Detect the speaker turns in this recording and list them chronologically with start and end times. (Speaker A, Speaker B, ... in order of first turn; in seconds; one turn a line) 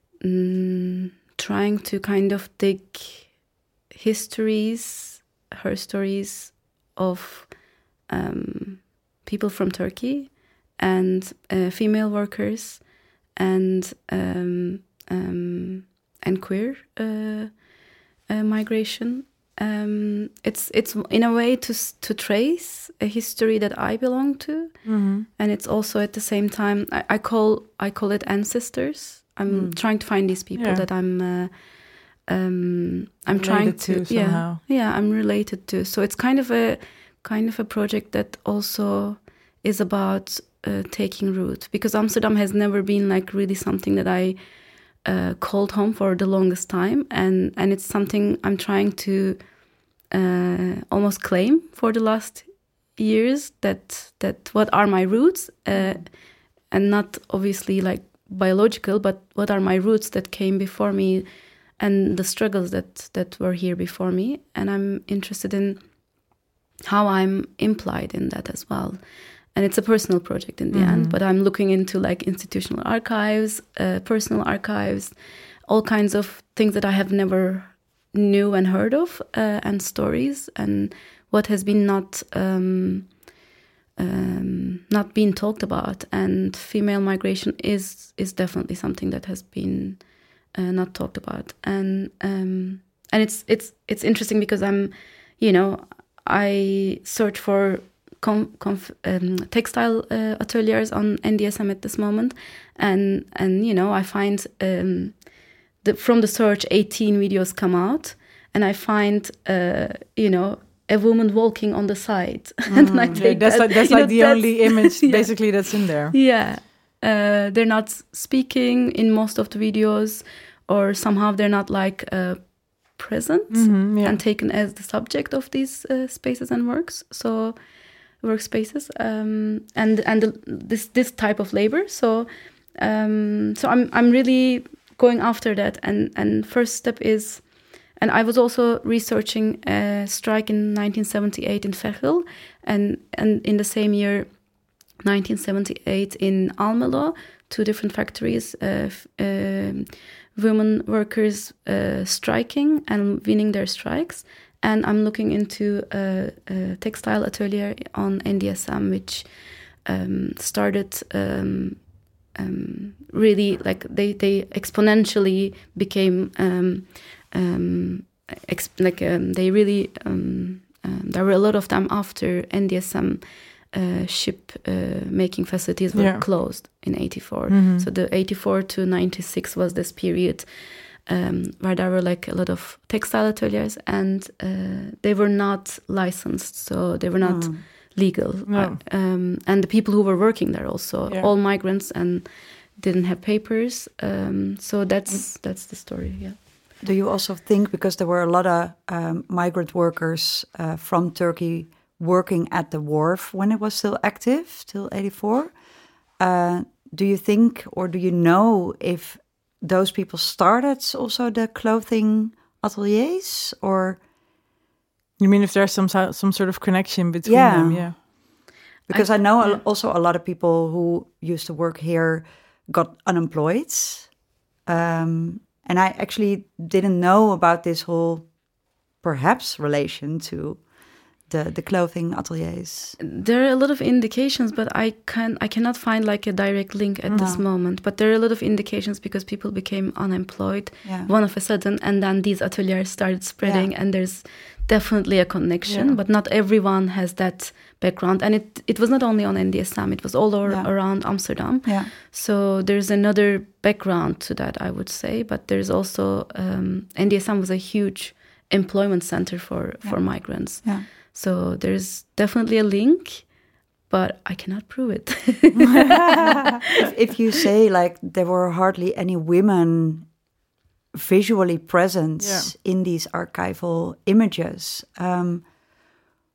Speaker A: 0.2-83.4
Speaker B: 24.8-25.2
Speaker C: 29.5-29.8
Speaker B: 30.5-30.8
Speaker B: 33.4-34.6
Speaker B: 70.7-71.2
Speaker A: 84.0-196.4
Speaker B: 112.7-116.1
Speaker C: 112.7-113.3
Speaker B: 123.5-124.2
Speaker B: 175.9-176.3
Speaker B: 177.5-177.9
Speaker C: 187.2-187.6
Speaker B: 188.5-188.8
Speaker C: 196.8-205.6
Speaker C: 206.2-214.0
Speaker B: 215.2-218.0
Speaker C: 217.2-233.0
Speaker A: 218.9-219.6
Speaker A: 233.0-266.5
Speaker B: 237.1-237.3
Speaker C: 237.1-237.4
Speaker C: 240.8-241.1
Speaker C: 243.4-243.7
Speaker B: 245.7-245.9
Speaker C: 250.4-251.9
Speaker C: 259.8-260.9
Speaker C: 266.1-270.2
Speaker C: 270.9-275.5
Speaker B: 272.2-272.5